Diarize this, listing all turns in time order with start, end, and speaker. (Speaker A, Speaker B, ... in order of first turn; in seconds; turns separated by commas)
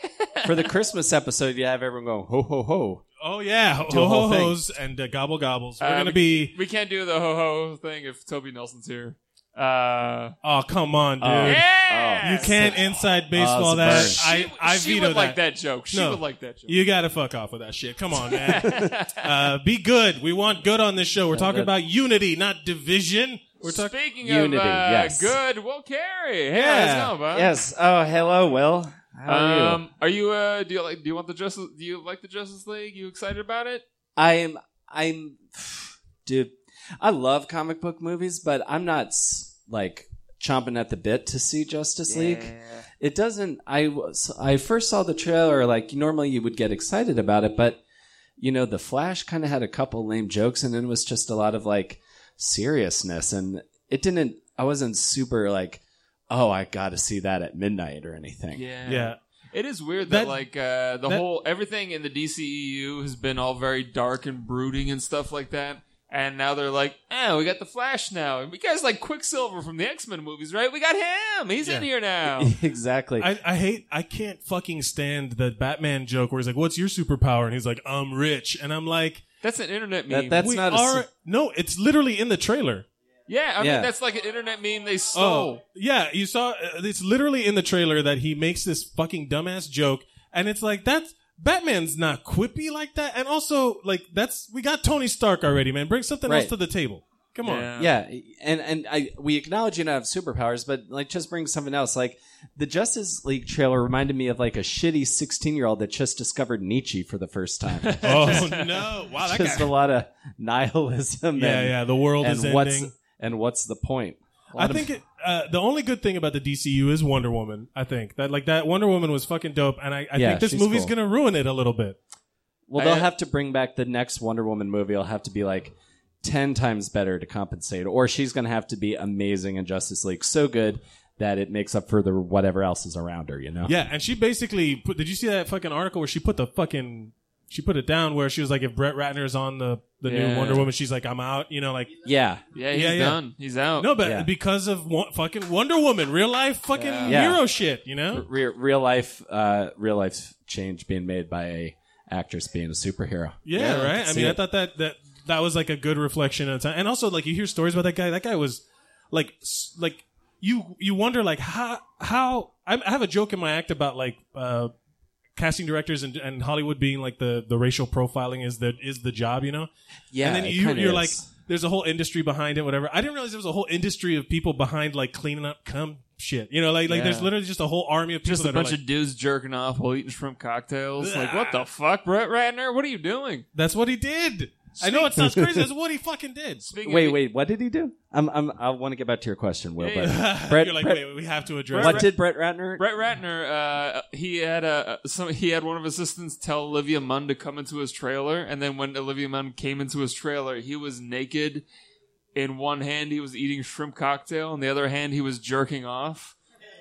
Speaker A: 0.4-3.0, Speaker B: 3.2-6.5, Speaker A: 3.9-4.6, Speaker C: 5.8-10.3, Speaker B: 10.4-11.7, Speaker A: 11.2-14.2, Speaker C: 11.4-12.6, Speaker B: 12.2-15.4, Speaker C: 13.9-16.7, Speaker B: 15.9-23.9, Speaker C: 18.3-19.3, Speaker A: 21.3-21.7, Speaker C: 23.6-27.5, Speaker A: 24.2-25.4, Speaker B: 26.5-27.1, Speaker A: 27.3-29.8, Speaker C: 29.3-33.8, Speaker A: 34.1-47.8, Speaker C: 42.1-42.8, Speaker A: 48.4-58.6, Speaker C: 58.5-72.5, Speaker B: 58.9-59.2, Speaker B: 60.1-60.4, Speaker A: 72.3-73.3, Speaker B: 73.2-79.2, Speaker C: 79.4-80.4, Speaker A: 80.1-81.0, Speaker B: 80.4-82.8, Speaker C: 83.3-85.6, Speaker A: 83.6-83.9, Speaker B: 85.1-97.7, Speaker A: 96.3-96.5, Speaker C: 97.4-97.9, Speaker A: 97.8-108.5, Speaker C: 107.8-108.7, Speaker B: 108.0-109.7, Speaker A: 109.2-114.9, Speaker B: 111.3-112.9, Speaker B: 114.5-122.0, Speaker A: 120.1-120.9, Speaker A: 122.7-133.7, Speaker C: 122.8-123.1, Speaker B: 133.7-141.9, Speaker C: 140.0-140.7, Speaker A: 142.1-142.4, Speaker C: 142.5-143.9, Speaker B: 142.7-143.2, Speaker B: 143.8-148.2, Speaker A: 144.0-144.3, Speaker C: 146.7-147.2, Speaker A: 147.1-147.4, Speaker A: 148.1-154.4, Speaker B: 153.4-164.7, Speaker B: 165.3-169.7, Speaker A: 170.1-171.3, Speaker B: 170.2-178.8, Speaker C: 176.9-177.3, Speaker C: 178.2-183.4, Speaker B: 181.0-181.6, Speaker B: 183.5-186.7, Speaker A: 184.8-185.5, Speaker C: 186.7-187.2, Speaker A: 186.8-191.0, Speaker C: 189.8-190.1, Speaker B: 190.0-192.1, Speaker A: 191.7-192.8, Speaker C: 191.7-192.1, Speaker C: 192.8-201.6, Speaker C: 202.3-206.3